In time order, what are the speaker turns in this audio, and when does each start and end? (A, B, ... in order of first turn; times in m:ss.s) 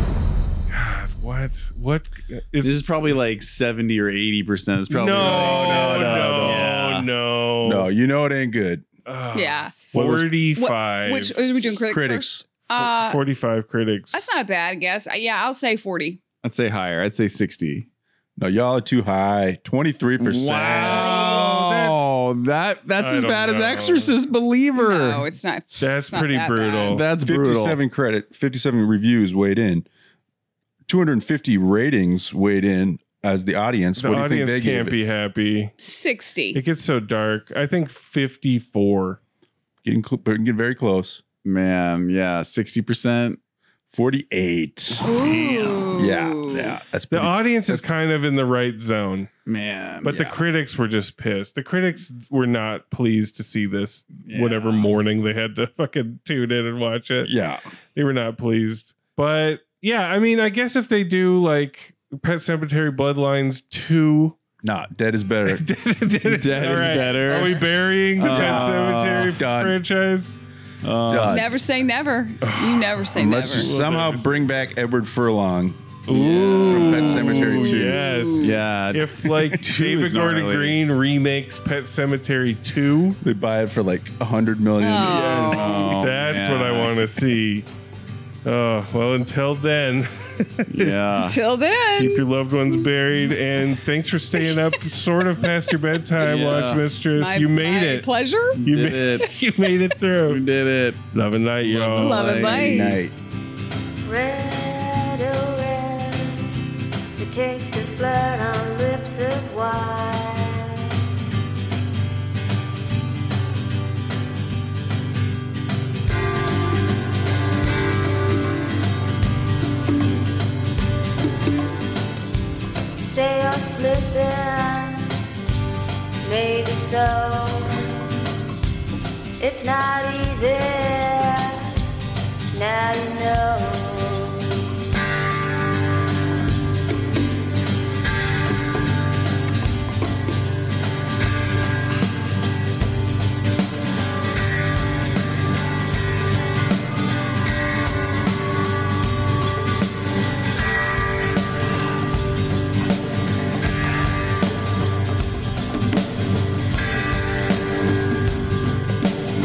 0:00.7-0:02.8 A
0:02.6-0:07.1 B
0:04.9-0:07.9 A
0:05.1-0:06.8 C
0:07.6-0:08.9 C
0:09.1-0:11.4 A
0:09.3-0:09.8 D
0:10.0-0:10.2 B
0:10.6-0:13.2 D
0:11.9-0:12.5 C
0:12.7-0:14.2 A
0:14.1-0:16.2 D
0:16.4-0:17.9 B
0:18.4-0:21.4 C
0:20.2-0:25.3 B
0:20.7-0:22.2 A
0:21.0-0:21.5 D
0:23.0-0:24.2 A
0:24.8-0:27.0 D
0:25.8-0:27.0 A
0:26.9-0:27.8 B
0:27.2-0:29.9 C
0:30.9-0:35.0 C
0:34.0-0:35.7 A
0:35.8-0:36.6 D
0:36.5-0:39.2 A
0:39.8-0:41.2 C
0:41.4-0:43.4 B
0:43.9-0:45.1 C
0:45.0-0:45.9 B
0:45.0-0:46.8 D
0:45.9-0:47.8 C
0:47.1-0:49.3 A
0:49.5-0:50.3 B
0:50.0-0:57.3 A
0:54.3-0:54.9 B
0:57.2-0:57.6 C
0:58.0-1:04.4 A
1:04.6-1:05.6 C
1:05.5-1:10.4 A
1:06.2-1:09.4 B
1:08.3-1:09.8 C
1:10.8-1:11.4 B
1:11.1-1:11.5 C
1:11.3-1:13.7 D
1:12.4-1:13.0 A
1:13.2-1:15.8 C
1:13.5-1:14.3 A
1:16.1-1:23.2 A
1:16.1-1:17.4 B
1:16.6-1:18.0 C
1:16.7-1:18.6 D
1:18.4-1:20.8 B
1:23.2-1:25.6 C
1:24.8-1:25.9 D
1:25.1-1:27.0 B
1:25.2-1:27.7 A
1:28.4-1:31.0 A
1:30.7-1:31.4 B
1:31.2-1:32.2 D
1:32.0-1:38.1 A
1:34.4-1:34.8 D
1:36.2-1:36.8 B
1:37.2-1:38.6 D
1:38.6-1:39.3 B
1:38.7-1:40.4 A
1:40.2-1:41.0 B
1:41.1-1:42.5 A
1:41.6-1:42.9 B
1:42.0-1:43.0 D
1:42.4-1:43.1 C
1:44.0-1:46.4 E
1:47.2-1:50.9 E
2:03.0-2:05.1 E
2:06.2-2:08.1 E
2:09.4-2:11.8 E
2:12.5-2:14.5 E